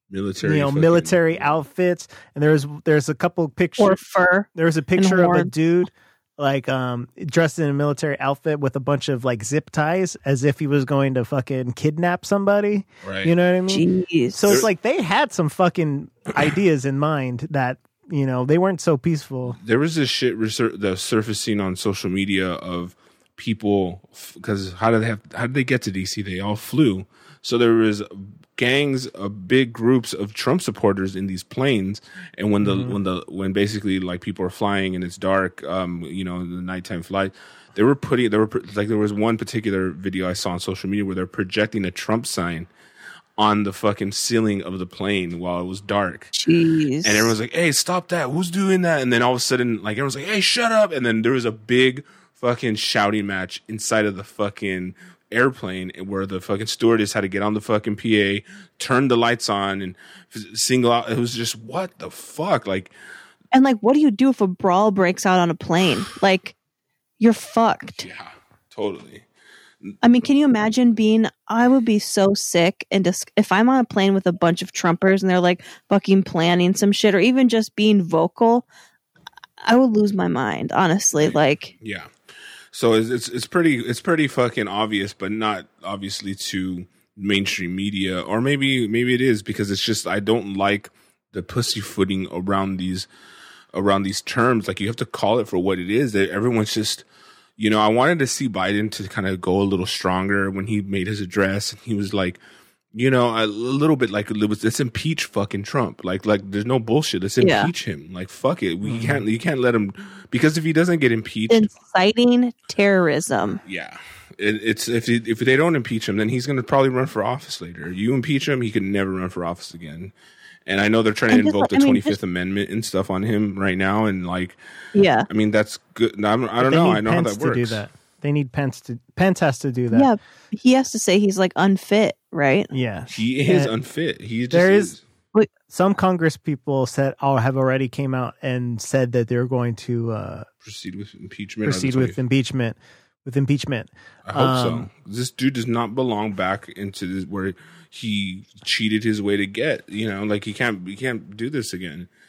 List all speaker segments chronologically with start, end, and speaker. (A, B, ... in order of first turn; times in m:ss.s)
0:00.1-0:01.5 A
0:00.4-0:04.0 B
0:03.8-0:05.5 C
0:04.5-0:19.6 B
0:13.0-0:13.3 A
0:13.7-0:14.6 C
0:19.5-0:42.7 A
0:32.6-0:33.0 B
0:43.4-0:46.3 A
0:46.3-0:47.3 C
0:47.0-1:02.9 A
1:03.5-1:06.6 C
1:07.2-1:08.0 C
1:08.0-1:09.2 A
1:10.0-1:18.6 C
1:19.6-1:21.7 C
1:21.2-1:22.1 A
1:22.7-1:33.1 A
1:33.7-1:37.0 A
1:37.6-1:42.4 A
1:42.9-1:51.8 A
1:47.4-1:47.7 C
1:48.8-1:49.2 B
1:51.5-1:53.6 C
1:53.6-2:00.1 A
2:00.7-2:04.6 A
2:01.3-2:02.2 C
2:04.9-2:05.3 C
2:05.3-2:07.8 A
2:06.6-2:10.1 B
2:09.9-2:12.7 C
2:12.7-2:13.7 B
2:13.1-2:15.0 A
2:14.5-2:14.9 B
2:15.7-2:20.5 B
2:20.6-2:22.2 A
2:21.6-2:24.9 B
2:24.2-2:32.1 A